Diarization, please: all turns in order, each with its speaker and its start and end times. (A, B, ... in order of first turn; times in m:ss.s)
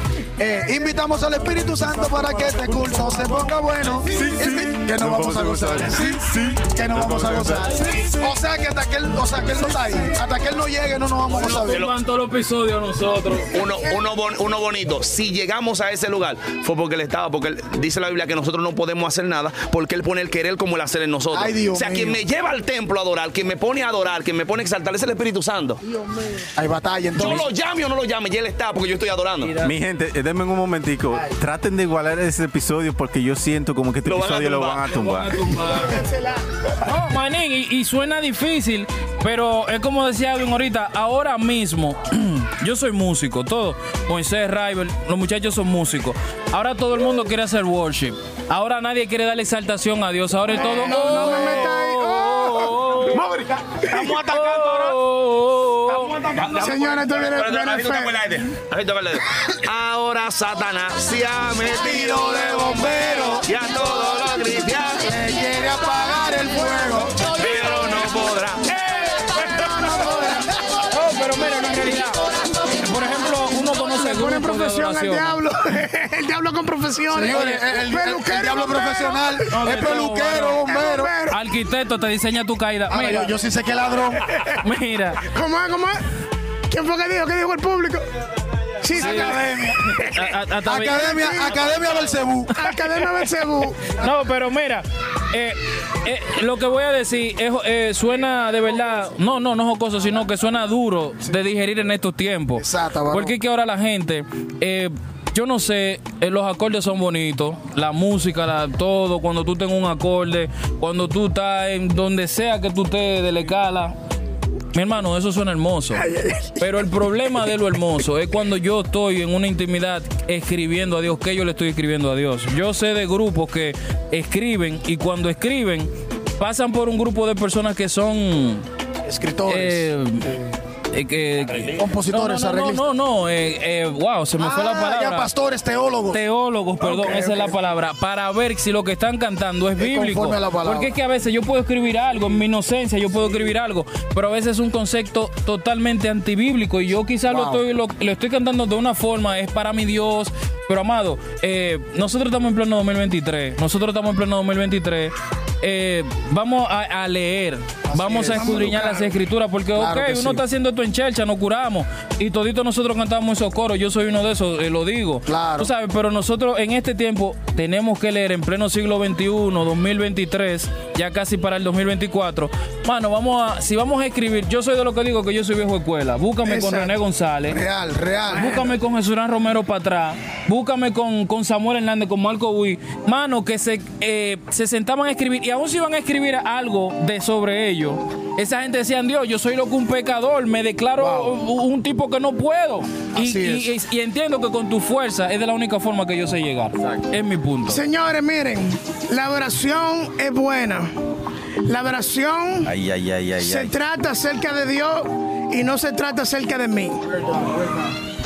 0:00.4-0:11.9 A
0:04.1-0:07.7 B
0:11.3-0:13.5 C
0:13.5-0:25.8 D
0:21.3-0:22.2 A
0:25.9-0:26.5 E
0:26.6-0:27.5 A
0:27.2-0:29.5 D
0:29.4-0:29.7 C
0:29.6-0:35.3 B
0:34.0-0:35.8 D
0:35.6-0:35.9 C
0:35.9-0:36.4 E
0:36.8-0:53.3 C
0:50.5-0:51.7 A
0:50.5-0:52.7 E
0:52.9-0:54.1 A
0:53.8-0:55.0 D
0:54.1-0:56.2 C
0:56.3-1:05.1 D
0:56.6-0:58.1 E
1:01.7-1:03.5 A
1:05.0-1:07.3 A
1:07.3-1:08.7 D
1:08.6-1:10.1 C
1:09.3-1:10.4 E
1:09.4-1:10.5 A
1:10.9-1:15.4 C
1:13.5-1:19.4 E
1:17.1-1:21.1 A
1:19.5-1:20.6 C
1:20.6-1:21.4 E
1:21.3-1:23.3 C
1:22.9-1:24.4 A
1:24.6-1:25.2 C
1:25.2-1:26.0 E
1:26.7-1:28.0 E
1:28.8-1:29.5 E
1:28.9-1:30.1 A
1:28.9-1:29.4 C
1:30.0-1:31.1 C
1:30.6-1:32.6 A
1:30.9-1:31.7 E
1:32.5-1:34.0 E
1:33.9-1:53.9 C
1:42.6-1:43.4 A
1:54.7-2:08.6 C
1:56.0-1:56.5 E
2:09.0-2:10.4 A
2:09.5-2:10.3 C
2:10.9-2:15.3 C
2:11.5-2:11.8 D
2:11.7-2:12.8 A
2:14.4-2:16.2 A
2:16.1-2:57.6 C
2:16.8-2:17.6 A
2:19.8-2:20.9 A
2:27.3-2:27.6 A
2:37.9-2:39.1 A
2:39.7-2:40.4 A
2:45.3-2:45.7 A
2:56.4-2:56.9 E
2:57.5-2:58.7 A
2:58.3-3:17.8 C
3:11.0-3:11.4 A
3:13.2-3:13.7 A
3:17.7-3:20.9 E
3:21.7-3:22.7 E
3:22.6-3:23.8 B
3:23.4-3:27.0 E
3:27.2-3:27.9 A